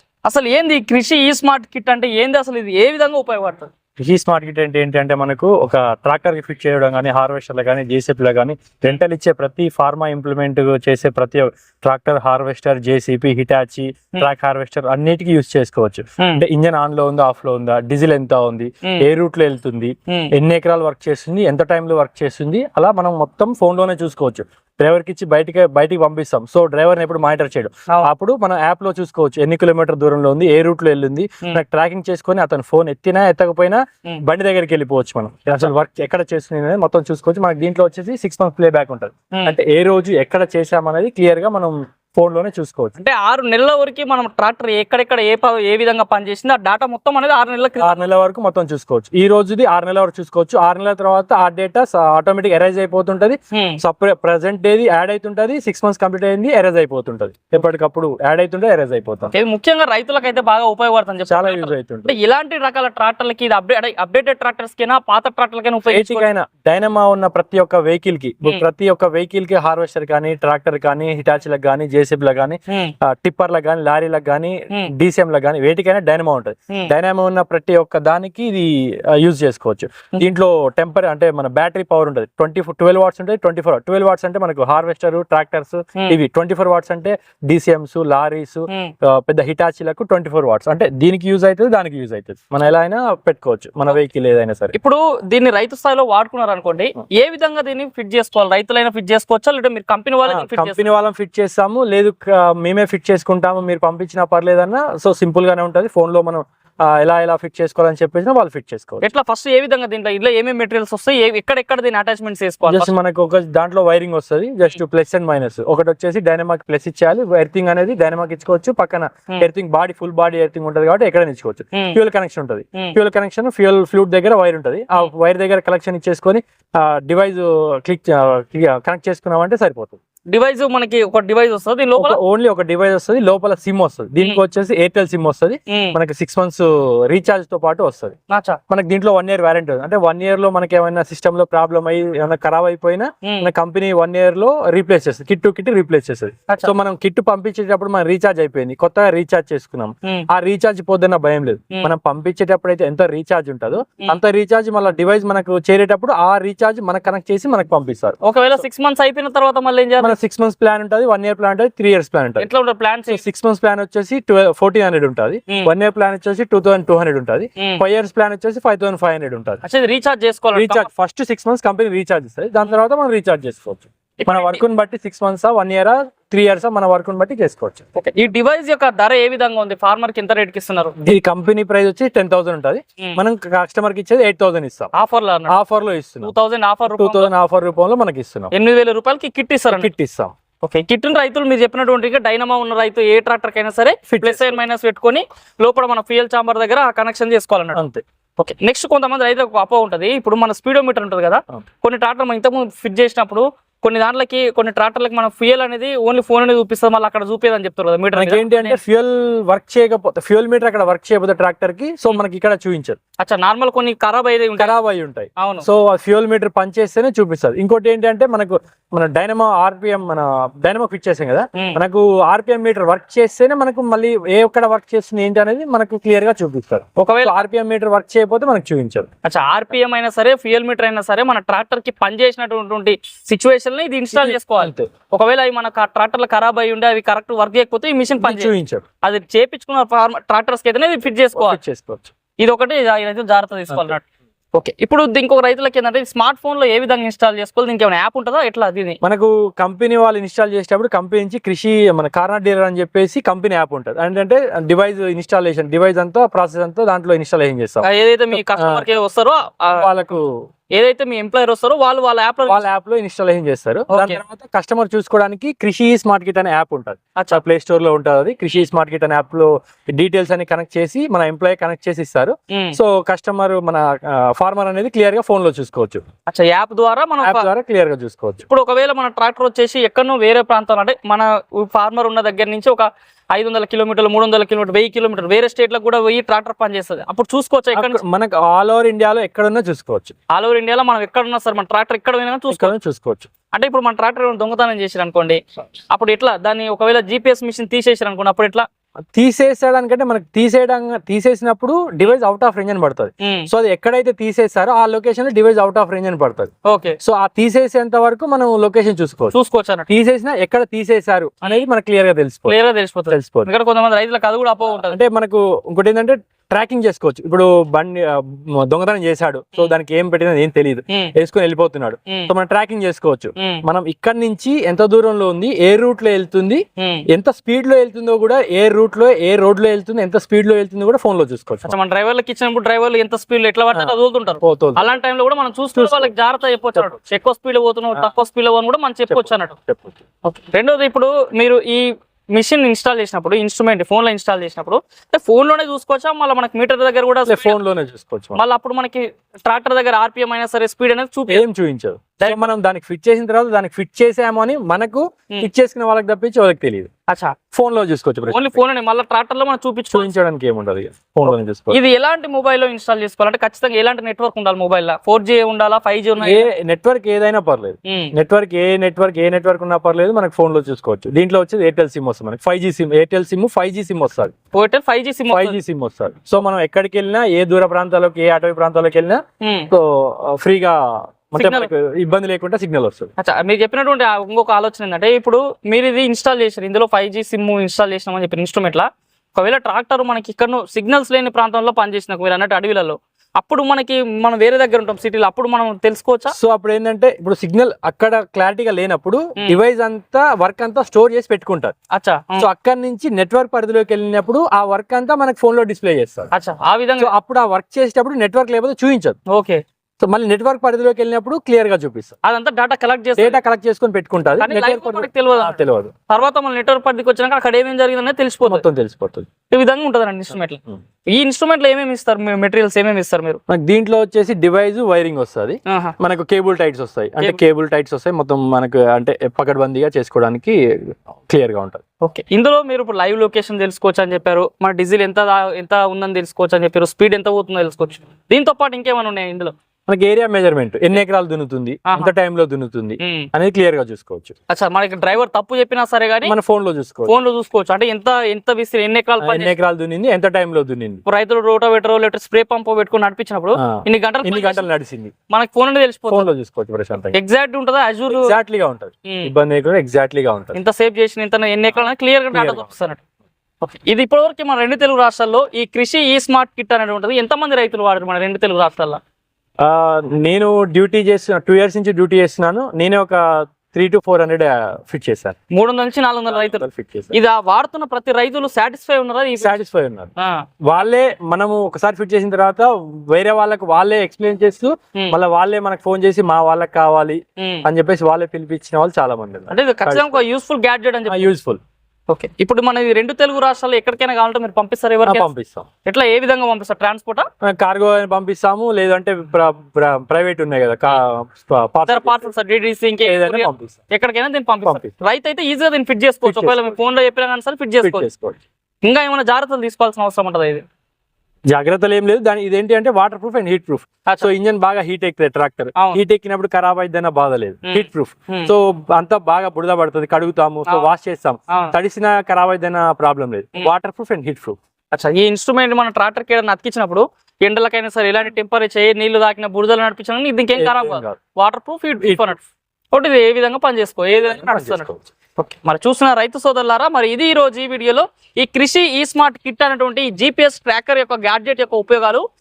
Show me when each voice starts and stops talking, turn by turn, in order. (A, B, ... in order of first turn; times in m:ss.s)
0:00.2-0:03.7 A
0:04.0-0:43.0 B
0:43.0-0:48.1 A
0:47.8-0:59.3 B
0:53.5-0:53.8 A
0:59.3-1:06.3 A
1:01.3-1:02.2 B
1:05.9-1:34.8 B
1:34.7-1:40.9 A
1:40.3-1:49.0 B
1:49.0-1:53.0 A
1:52.7-2:10.0 B
2:10.3-2:12.2 A
2:12.0-2:18.2 B
2:15.7-2:16.0 A
2:18.3-2:18.6 A
2:18.7-2:38.6 B
2:23.2-2:23.5 A
2:38.2-2:40.2 A
2:40.0-2:42.5 B
2:42.4-2:43.2 A
2:43.1-2:49.6 B
2:47.6-2:47.8 A
2:49.6-2:50.9 A
2:50.5-2:57.9 B
2:54.2-2:54.6 A
2:58.0-3:01.0 A
3:01.0-3:04.9 B
3:04.9-3:05.6 A
3:05.5-3:06.3 B
3:06.2-3:07.3 A
3:06.9-3:08.5 B
3:08.5-3:09.9 A
3:09.7-3:10.4 B
3:10.6-3:17.8 A
3:14.1-3:14.6 B
3:17.7-3:18.0 B
3:18.4-3:28.8 A
3:28.2-3:33.0 B
3:33.2-3:34.7 A
3:34.6-3:49.1 B
3:35.4-3:35.7 A
3:47.0-3:47.4 A
3:49.2-3:58.5 A
3:54.1-3:54.9 B
3:58.2-3:58.8 B
3:59.0-4:01.6 A
4:01.4-4:02.1 B
4:02.4-4:04.0 A
4:03.7-4:04.0 B
4:04.5-4:09.0 A
4:09.0-4:18.8 B
4:17.8-4:19.9 A
4:19.8-4:20.3 B
4:20.7-4:22.6 A
4:22.5-4:36.0 B
4:23.9-4:24.2 A
4:27.2-4:27.4 A
4:32.5-4:32.8 A
4:36.3-4:37.5 A
4:37.2-4:38.4 B
4:38.5-4:48.0 A
4:47.7-4:50.2 B
4:50.3-4:52.7 A
4:52.5-4:53.3 B
4:53.5-4:58.7 A
4:59.2-5:09.4 B
5:03.2-5:03.5 A
5:06.6-5:07.0 A
5:09.3-5:09.9 A
5:09.9-5:12.6 B
5:12.5-5:15.0 A
5:13.1-5:13.5 B
5:14.9-5:31.7 B
5:23.4-5:23.6 A
5:26.8-5:27.0 A
5:31.7-5:39.6 A
5:33.7-5:34.9 B
5:35.8-5:36.1 B
5:39.1-5:40.0 B
5:40.2-5:47.6 A
5:47.3-5:48.4 B
5:48.4-5:51.4 A
5:51.3-5:56.9 B
5:52.2-5:52.5 A
5:57.1-5:57.4 A
5:57.5-5:58.6 B
5:58.3-6:00.1 A
5:59.9-6:01.8 B
6:01.3-6:06.5 A
6:06.2-6:14.3 B
6:07.9-6:08.1 A
6:14.5-6:15.6 A
6:15.3-6:23.1 B
6:19.4-6:19.7 A
6:21.4-6:21.7 A
6:23.2-6:36.4 A
6:36.3-6:41.8 B
6:41.9-6:42.5 A
6:42.4-6:46.3 B
6:46.3-6:47.1 A
6:47.0-6:49.2 B
6:49.3-6:49.6 A
6:50.0-6:52.2 B
6:52.2-6:53.4 A
6:53.2-6:55.9 B
6:54.4-6:58.6 A
6:58.4-6:59.3 B
6:59.5-7:03.4 A
7:03.5-7:11.8 B
7:05.7-7:06.0 A
7:12.0-7:19.5 A
7:19.9-7:24.4 B
7:21.9-7:22.1 A
7:23.0-7:23.3 A
7:24.5-7:26.3 A
7:26.2-7:27.1 B
7:27.1-7:29.6 A
7:29.2-7:31.0 B
7:31.1-7:34.7 A
7:33.6-7:35.1 B
7:35.3-7:36.3 A
7:36.1-7:37.2 B
7:37.1-7:38.3 A
7:38.1-7:40.6 B
7:39.1-7:39.3 A
7:40.5-7:43.0 A
7:42.3-7:42.7 B
7:43.6-7:49.0 A
7:49.6-7:55.4 B
7:55.5-7:59.6 A
7:56.3-7:57.2 B
7:59.4-8:00.1 B
8:00.2-8:00.4 A
8:00.7-8:10.2 B
8:07.4-8:07.7 A
8:09.5-8:11.3 A
8:11.1-8:11.6 B
8:12.1-8:15.3 A
8:15.0-8:15.7 B
8:15.8-8:17.3 A
8:17.4-8:22.2 B
8:21.9-8:28.1 A
8:23.0-8:23.8 B
8:24.6-8:24.9 B
8:26.2-8:26.6 B
8:27.8-8:28.4 B
8:28.8-8:30.6 A
8:31.5-8:44.6 B
8:37.7-8:38.5 A
8:44.9-9:02.2 A
8:50.6-8:51.2 B
8:52.0-8:52.4 B
8:54.3-8:55.1 B